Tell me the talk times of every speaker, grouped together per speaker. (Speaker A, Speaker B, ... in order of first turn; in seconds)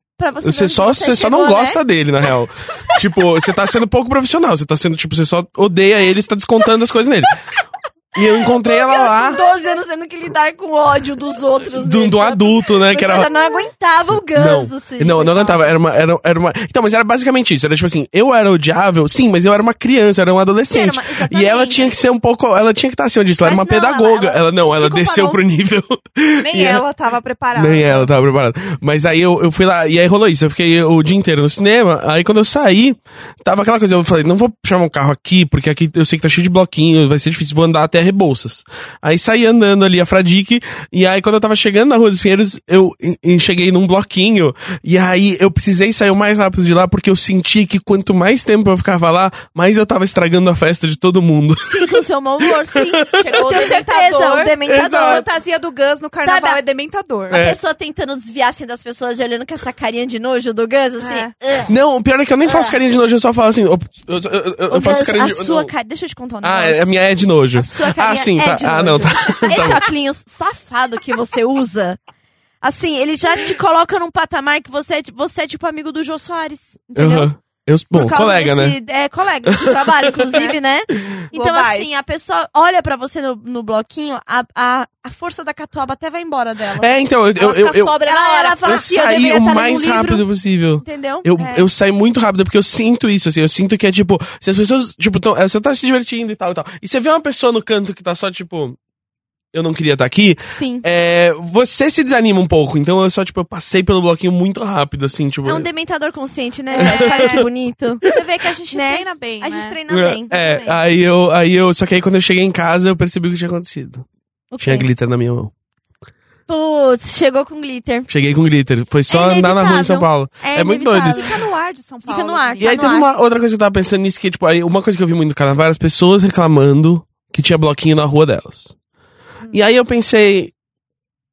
Speaker A: 0.2-1.8, 8.3-15.7, 20.7-21.9, 23.4-25.4, 51.6-55.2, 56.2-56.6, 57.3-61.7, 62.4-62.8, 64.7-66.9, 67.5-72.0, 72.6-77.3, 77.9-86.9, 88.0-90.2, 90.8-91.3, 100.5-100.8, 105.4-108.0, 108.7-110.8, 114.5-114.9, 116.5-118.1, 119.1-121.3, 122.0-123.1
Speaker B: 0.4-7.3, 8.1-9.4, 11.7-13.3, 14.2-26.8, 27.6-53.4, 54.6-55.2, 57.3-57.6, 61.7-65.7, 66.4-69.8, 77.0-78.8, 79.5-80.4, 86.8-88.0, 88.6-98.8, 99.5-105.7, 106.8-107.4, 109.9-114.0, 114.6-115.5, 118.1-121.3, 122.6-128.7, 129.5-130.5
Speaker C: 26.4-28.1, 53.2-57.4, 61.0-61.3, 81.3-81.9, 87.4-88.7, 91.4-91.7, 106.7-107.5, 108.0-109.8, 121.0-122.8